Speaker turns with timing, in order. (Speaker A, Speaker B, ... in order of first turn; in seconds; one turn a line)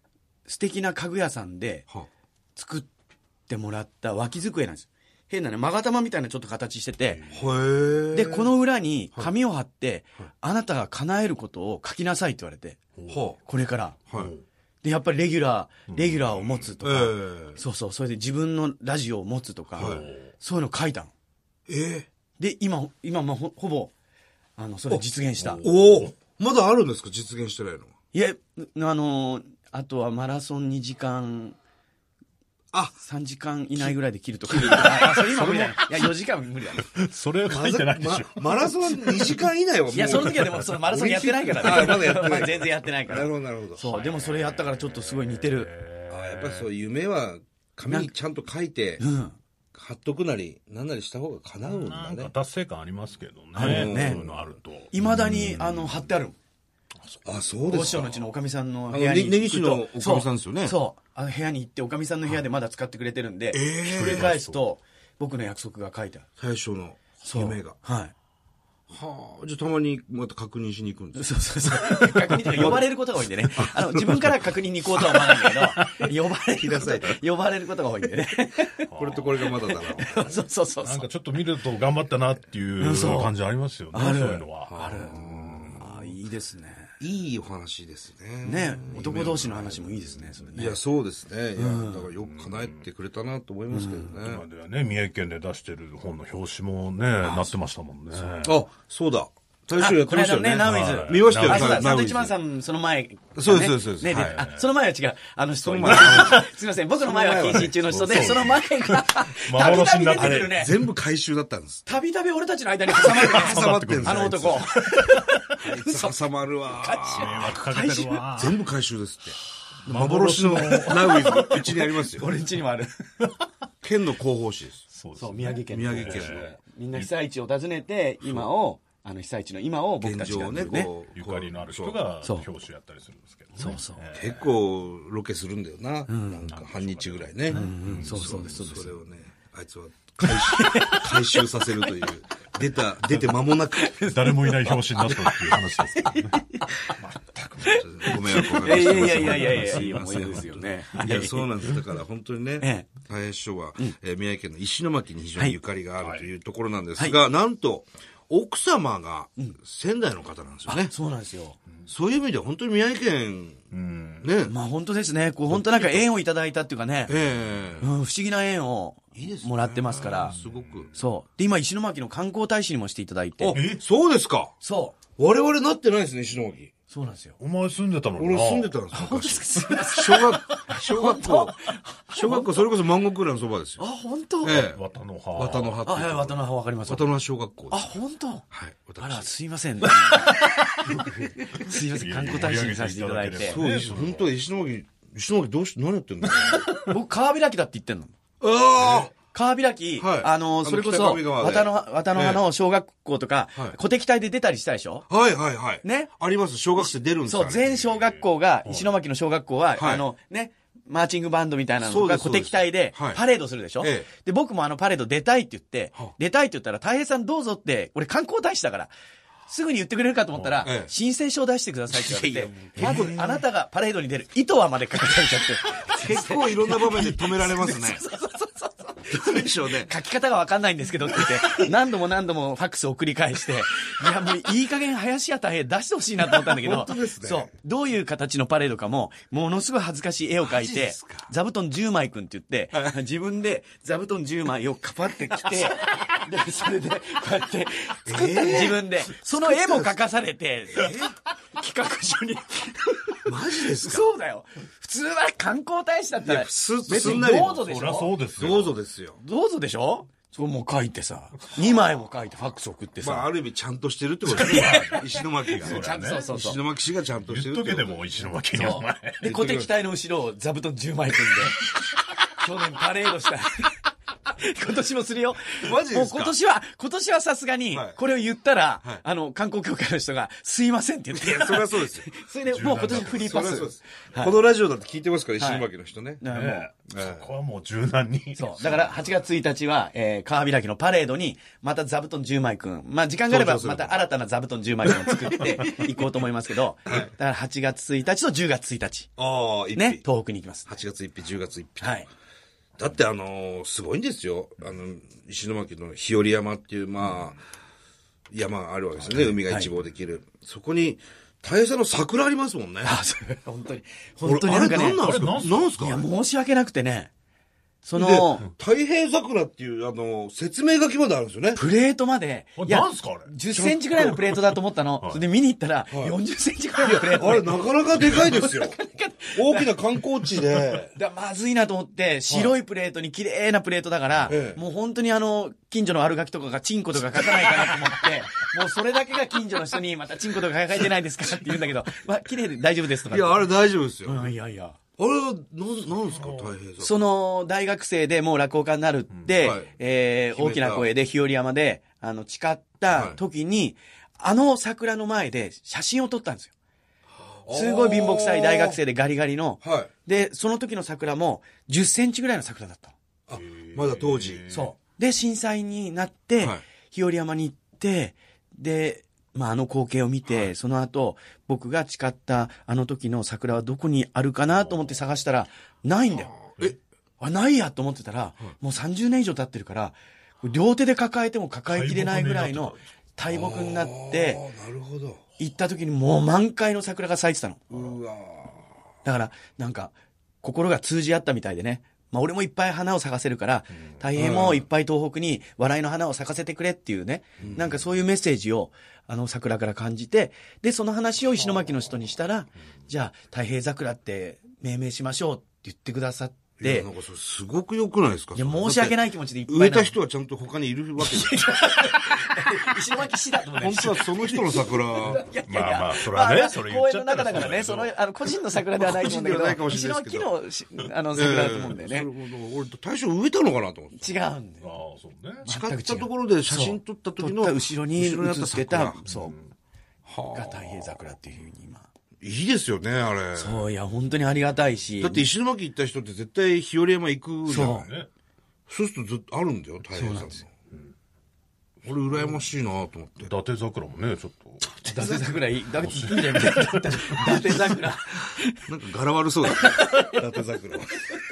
Speaker A: 0.5-1.9
Speaker A: 2.6-2.9
Speaker A: 3.5-7.3
Speaker B: 7.1-7.5
Speaker C: 7.3-8.5
Speaker A: 8.1-12.8
Speaker B: 13.0-13.2
Speaker C: 13.1-13.4
Speaker A: 13.4-14.0
Speaker C: 14.1-14.3
Speaker B: 14.1-14.4
Speaker A: 14.8-21.1
Speaker B: 15.9-16.7
Speaker C: 16.8-17.6
Speaker B: 19.8-20.3
Speaker C: 19.8-20.0
Speaker C: 21.7-22.1
Speaker A: 22.4-23.9
Speaker A: 24.6-25.6
Speaker B: 25.4-26.1
Speaker C: 25.6-27.9
Speaker A: 28.1-31.6
Speaker A: 33.0-36.9
Speaker B: 34.5-36.1
Speaker C: 34.7-35.7
Speaker B: 36.8-39.4
Speaker C: 37.5-43.9
Speaker A: 39.9-45.7
Speaker B: 40.1-40.7
Speaker B: 41.5-42.5
Speaker B: 43.9-46.7
Speaker C: 46.1-49.0
Speaker A: 49.0-49.4
Speaker C: 49.7-52.3
Speaker B: 51.7-56.1
Speaker A: 53.5-54.2
Speaker C: 53.6-54.5
Speaker A: 54.9-56.4
Speaker B: 57.0-58.1
Speaker C: 57.2-58.2
Speaker A: 57.7-66.3
Speaker C: 58.9-60.8
Speaker C: 63.5-64.3
Speaker B: 63.9-64.6
Speaker C: 66.4-67.8
Speaker A: 67.2-68.1
Speaker C: 68.9-71.3
Speaker A: 71.2-81.1
Speaker C: 72.3-72.8
Speaker B: 72.5-72.8
Speaker B: 73.7-74.4
Speaker B: 75.0-75.9
Speaker C: 76.6-77.1
Speaker B: 78.9-79.4
Speaker C: 78.9-80.4
Speaker B: 80.8-86.0
Speaker A: 82.8-83.4
Speaker A: 83.9-86.9
Speaker C: 84.6-85.8
Speaker C: 87.0-89.9
Speaker A: 88.4-90.8
Speaker B: 90.0-90.3
Speaker C: 90.5-94.4
Speaker A: 91.6-92.1
Speaker B: 92.2-92.9
Speaker A: 93.7-94.2
Speaker B: 94.2-98.6
Speaker A: 97.2-97.5
Speaker C: 98.4-102.3
Speaker A: 99.8-110.7
Speaker B: 100.6-101.9
Speaker C: 103.3-104.5
Speaker B: 104.1-104.6
Speaker C: 105.6-106.5
Speaker B: 105.8-106.5
Speaker C: 107.0-107.8
Speaker B: 107.4-110.6
Speaker C: 110.2-111.9
Speaker A: 111.9-118.4
Speaker B: 112.9-115.4
Speaker C: 113.0-114.7
Speaker C: 115.6-117.6
Speaker B: 117.2-118.6
Speaker C: 118.3-122.3
Speaker B: 119.8-121.6
Speaker A: 120.5-122.9
Speaker C: 123.8-124.9
Speaker B: 124.9-127.1
Speaker A: 125.2-130.9
Speaker C: 125.7-126.6
Speaker C: 130.0-132.0
Speaker B: 131.1-134.6
Speaker A: 133.5-134.0
Speaker C: 134.1-144.0
Speaker A: 136.1-136.4
Speaker B: 136.4-138.8
Speaker A: 137.5-139.0
Speaker A: 140.2-141.9
Speaker A: 143.8-146.9
Speaker B: 144.0-150.6
Speaker A: 147.7-151.5
Speaker C: 147.7-160.9
Speaker A: 152.6-153.0
Speaker B: 156.0-156.3
Speaker A: 160.7-161.6
Speaker C: 161.9-163.6
Speaker B: 163.7-164.3
Speaker C: 164.2-164.5
Speaker A: 164.5-167.1
Speaker C: 165.5-166.0
Speaker C: 167.1-167.9
Speaker A: 167.8-170.4
Speaker C: 169.2-170.9
Speaker B: 170.0-171.0
Speaker A: 170.9-173.6
Speaker C: 173.4-174.5
Speaker B: 173.5-173.8
Speaker A: 174.6-175.0
Speaker C: 175.2-176.7
Speaker A: 176.9-177.4
Speaker B: 177.4-178.8
Speaker C: 178.2-181.6
Speaker A: 178.9-182.7
Speaker C: 182.1-183.8
Speaker A: 183.8-184.6
Speaker C: 184.4-184.8
Speaker B: 184.4-185.8
Speaker C: 185.3-187.9
Speaker A: 185.9-187.1
Speaker A: 187.7-188.5
Speaker C: 188.5-189.3
Speaker A: 189.0-193.6
Speaker B: 191.2-194.3
Speaker C: 193.4-196.7
Speaker A: 196.2-198.1
Speaker C: 198.4-199.1
Speaker A: 199.2-205.1
Speaker C: 200.0-202.4
Speaker C: 205.1-207.8
Speaker A: 205.8-206.2
Speaker A: 206.8-218.9
Speaker B: 207.7-208.9
Speaker C: 209.8-210.1
Speaker C: 211.8-213.2
Speaker C: 213.8-214.1
Speaker A: 219.5-258.1
Speaker B: 220.3-220.7
Speaker C: 220.6-220.9
Speaker C: 221.9-223.2
Speaker B: 222.7-223.4
Speaker C: 226.0-228.0
Speaker C: 229.1-229.9
Speaker C: 236.4-237.5
Speaker C: 240.4-241.3
Speaker C: 248.1-249.9
Speaker C: 250.8-251.1
Speaker C: 253.2-254.1
Speaker C: 256.2-257.6
Speaker B: 256.9-258.8
Speaker C: 258.4-259.2
Speaker A: 259.2-263.3
Speaker C: 263.0-268.0
Speaker B: 264.3-266.3
Speaker A: 264.3-266.6
Speaker B: 267.3-269.3
Speaker A: 268.5-284.4
Speaker C: 269.2-269.7
Speaker C: 275.6-276.4
Speaker C: 277.7-278.0
Speaker C: 281.1-282.1
Speaker B: 282.5-283.6
Speaker C: 283.2-286.2
Speaker A: 285.4-285.7
Speaker A: 286.2-286.7
Speaker B: 286.3-289.0
Speaker C: 286.9-287.3
Speaker A: 288.4-299.2
Speaker C: 293.3-294.0
Speaker B: 295.1-295.9
Speaker C: 299.2-300.0
Speaker A: 299.8-300.7
Speaker C: 300.7-302.0
Speaker A: 301.8-302.1
Speaker C: 302.8-307.4
Speaker C: 308.3-313.0
Speaker A: 309.2-309.7
Speaker A: 312.8-315.2
Speaker C: 314.2-316.1
Speaker B: 314.5-315.7
Speaker A: 315.8-317.1
Speaker A: 317.8-318.5
Speaker C: 318.0-321.6
Speaker A: 321.6-329.7
Speaker B: 322.6-323.3
Speaker C: 323.5-324.1
Speaker B: 324.0-325.2
Speaker C: 326.8-328.8
Speaker C: 329.4-330.9
Speaker A: 330.5-344.8
Speaker C: 334.3-334.6
Speaker C: 343.1-344.3
Speaker C: 345.0-347.0
Speaker B: 346.1-346.5
Speaker A: 346.8-356.5
Speaker C: 349.4-349.7
Speaker C: 350.3-350.9
Speaker C: 352.9-353.2
Speaker C: 357.2-358.8
Speaker A: 357.5-362.9
Speaker C: 359.6-359.9
Speaker C: 363.3-364.4
Speaker B: 363.4-364.7
Speaker A: 364.5-376.4
Speaker C: 376.4-376.8
Speaker A: 377.2-384.5
Speaker B: 381.7-382.8
Speaker C: 383.3-385.2
Speaker A: 385.4-388.0
Speaker C: 387.7-388.6
Speaker A: 389.1-406.9
Speaker C: 394.1-394.6
Speaker C: 397.4-397.7
Speaker C: 406.6-411.4
Speaker A: 408.4-410.0
Speaker A: 411.0-422.1
Speaker C: 413.6-415.3
Speaker B: 415.4-417.9
Speaker C: 418.8-420.3
Speaker C: 421.1-424.0
Speaker A: 424.0-424.7
Speaker B: 424.6-425.5
Speaker A: 425.4-429.4
Speaker C: 425.5-429.0
Speaker B: 429.1-429.5
Speaker C: 430.1-430.9
Speaker A: 430.3-431.9
Speaker C: 432.2-433.6
Speaker A: 433.4-435.3
Speaker C: 435.0-437.9
Speaker A: 437.5-437.9
Speaker B: 437.6-438.1
Speaker C: 438.7-440.5
Speaker A: 439.9-440.4
Speaker C: 441.8-443.3
Speaker B: 443.2-447.8
Speaker A: 444.8-448.6
Speaker C: 448.6-451.1
Speaker A: 449.6-450.1